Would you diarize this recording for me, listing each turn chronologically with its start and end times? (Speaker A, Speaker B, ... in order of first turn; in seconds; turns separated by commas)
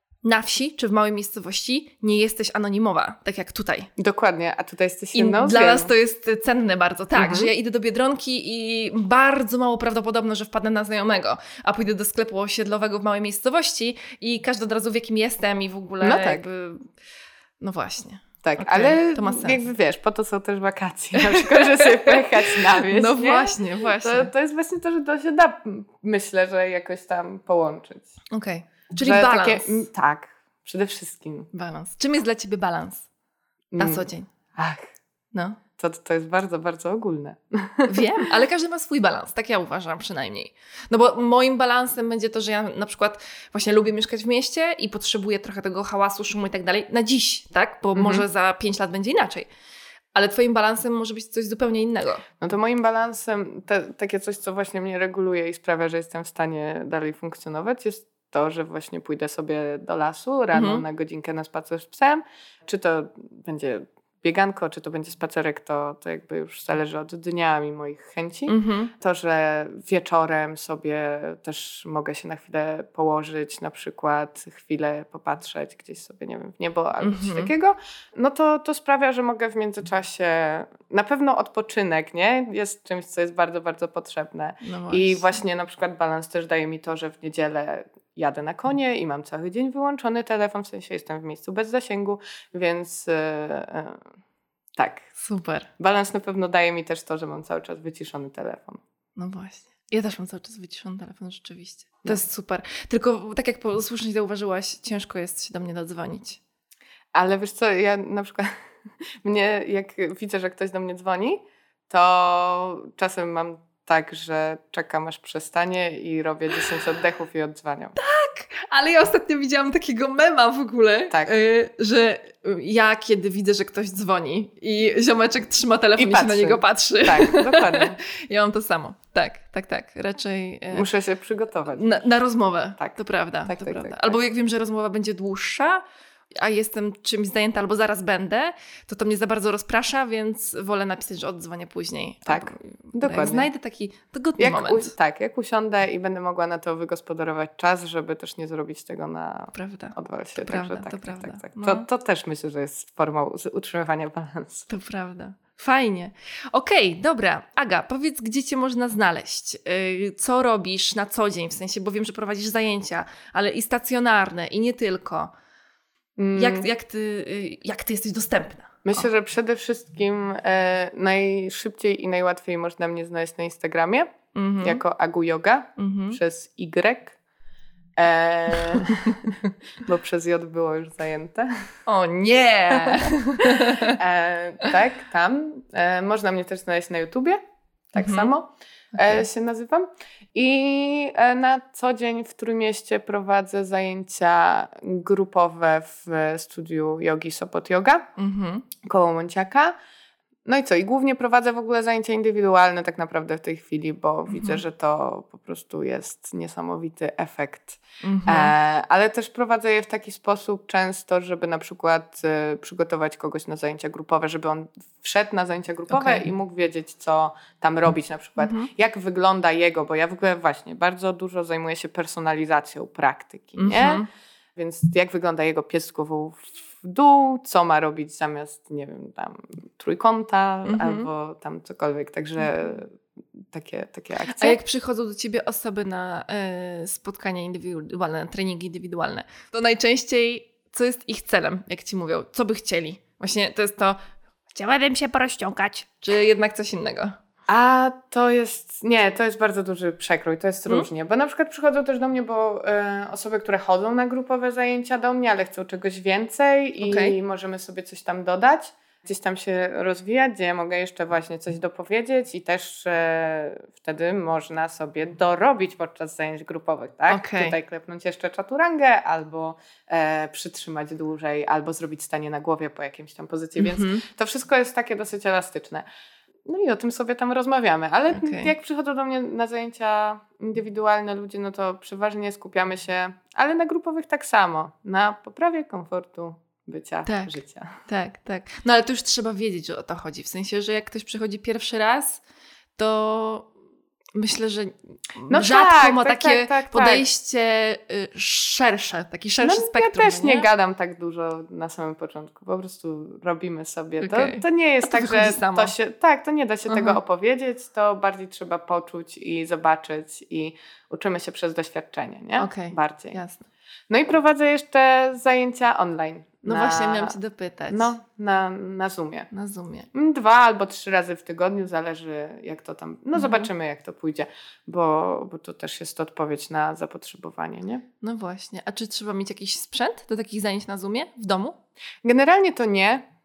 Speaker A: 0.2-3.9, Speaker B: 4.0-5.9, Speaker A: 5.1-16.9, Speaker B: 7.2-7.5, Speaker B: 16.0-16.5, Speaker A: 17.6-19.6, Speaker B: 18.4-28.1, Speaker A: 21.2-24.3, Speaker A: 28.3-29.8, Speaker B: 29.0-31.5, Speaker A: 31.5-33.1, Speaker B: 33.7-34.9, Speaker A: 33.8-34.3, Speaker A: 35.3-35.6, Speaker B: 35.8-38.0, Speaker A: 37.9-49.5, Speaker B: 47.9-48.3, Speaker A: 50.1-52.2, Speaker B: 52.4-94.0, Speaker A: 60.5-60.8, Speaker A: 68.5-68.9, Speaker A: 77.0-77.5, Speaker A: 84.6-85.3, Speaker B: 94.8-95.1, Speaker A: 95.2-95.7, Speaker B: 95.8-98.8, Speaker A: 99.2-106.4, Speaker B: 107.1-108.5, Speaker B: 109.2-118.0, Speaker A: 118.0-130.9, Speaker B: 121.1-121.3, Speaker B: 126.0-128.0, Speaker B: 130.7-131.9, Speaker A: 131.7-135.8, Speaker B: 132.8-134.2, Speaker A: 136.4-144.9, Speaker B: 142.3-143.5, Speaker B: 144.4-154.7, Speaker A: 149.5-151.8, Speaker A: 154.7-165.3, Speaker B: 166.2-166.7, Speaker A: 166.3-169.1, Speaker B: 168.8-177.2, Speaker A: 174.3-174.8, Speaker A: 175.8-176.2, Speaker B: 178.0-181.5, Speaker A: 178.9-179.2, Speaker A: 181.9-184.0, Speaker B: 182.7-187.4, Speaker B: 187.9-198.1, Speaker A: 188.0-188.3, Speaker A: 188.9-189.2, Speaker A: 198.2-198.7, Speaker B: 198.8-199.8, Speaker B: 200.5-224.0, Speaker A: 204.3-204.6, Speaker A: 208.0-208.5, Speaker A: 215.9-216.2, Speaker A: 218.4-218.7, Speaker A: 223.6-224.1, Speaker B: 224.6-234.6, Speaker A: 230.7-231.1, Speaker A: 234.3-244.0, Speaker A: 244.5-247.2, Speaker B: 247.5-275.9, Speaker A: 256.8-257.2, Speaker A: 267.1-267.6, Speaker A: 273.6-274.0, Speaker B: 276.5-287.8, Speaker A: 278.1-278.5, Speaker A: 287.1-292.2, Speaker A: 292.8-293.5, Speaker A: 294.1-300.5, Speaker B: 295.3-297.1, Speaker B: 299.4-313.2, Speaker A: 304.0-305.7, Speaker A: 306.7-307.0, Speaker A: 312.4-313.4, Speaker B: 313.9-317.2, Speaker A: 316.4-317.9, Speaker B: 317.7-319.3, Speaker A: 319.3-319.9, Speaker B: 319.9-327.8, Speaker A: 323.2-323.5, Speaker A: 328.0-331.6, Speaker B: 332.0-333.1